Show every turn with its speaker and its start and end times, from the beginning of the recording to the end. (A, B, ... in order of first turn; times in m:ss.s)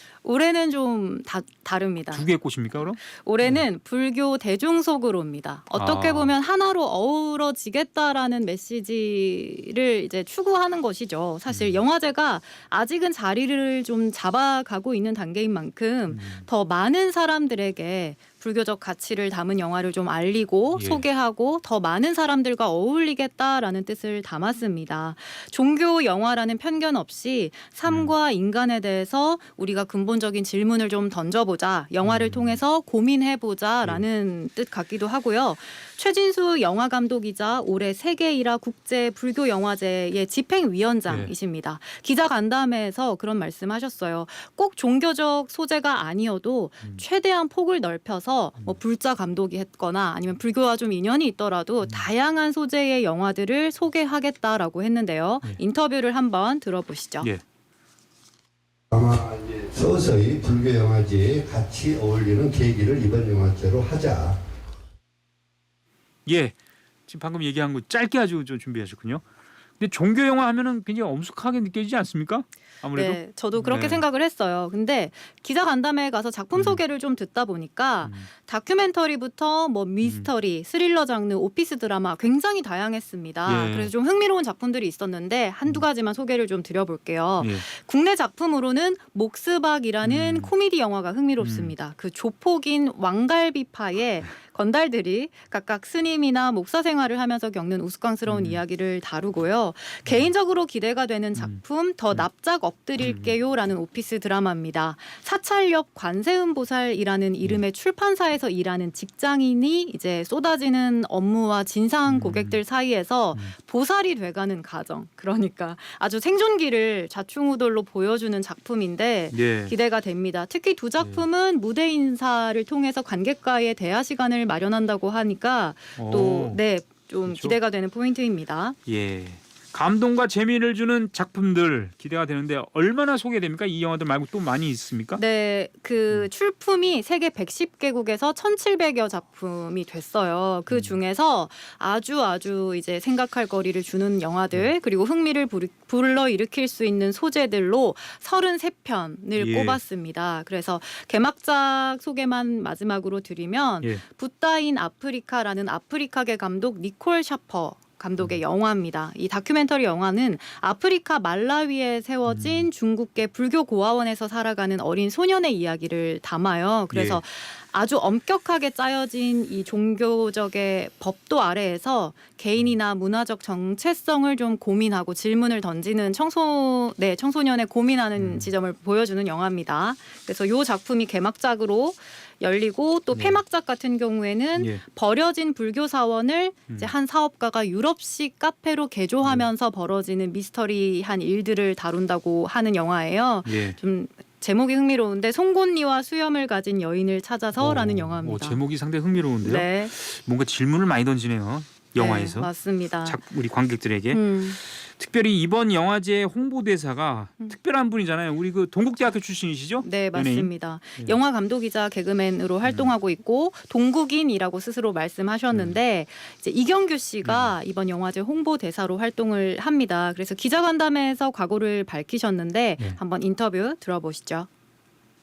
0:00.2-0:57.3 A
0:02.1-0:03.6 B
0:05.8-0:06.3 B
0:11.5-0:11.8 B
0:16.1-0:16.5 B
0:20.7-0:21.0 B
0:27.9-0:28.1 B
0:32.0-0:32.6 B
0:58.9-1:04.4 C
1:06.3-1:06.6 B
1:07.1-1:09.2 B
1:09.8-1:14.0 B
1:12.9-2:08.8 A
1:16.6-1:16.8 B
1:18.0-1:18.3 B
1:20.0-1:20.3 B
1:23.5-1:23.9 B
1:27.4-1:27.7 B
1:30.0-1:30.5 B
1:31.4-1:31.7 B
1:38.3-1:38.6 B
1:40.1-1:40.3 B
1:43.0-1:43.4 B
1:52.1-1:52.6 B
1:59.3-1:59.8 B
2:01.0-2:01.2 B
2:06.0-2:06.6 B
2:07.3-2:07.6 B
2:08.9-2:15.2 B
2:15.2-3:18.6 A
2:20.7-2:21.0 B
2:29.4-2:29.8 B
2:42.3-2:42.7 B
2:46.9-2:47.2 B
2:58.2-2:58.5 B
3:03.1-3:03.4 B
3:04.6-3:04.8 B
3:09.2-3:09.5 B
3:13.5-3:13.8 B
3:17.6-3:22.5 B
3:19.4-3:19.9 A
3:22.0-3:23.2 A
3:23.0-3:31.2 B
3:24.1-3:24.6 A
3:29.8-3:44.5 A
3:32.6-3:32.9 B
3:35.5-3:35.8 B
3:37.2-3:37.6 B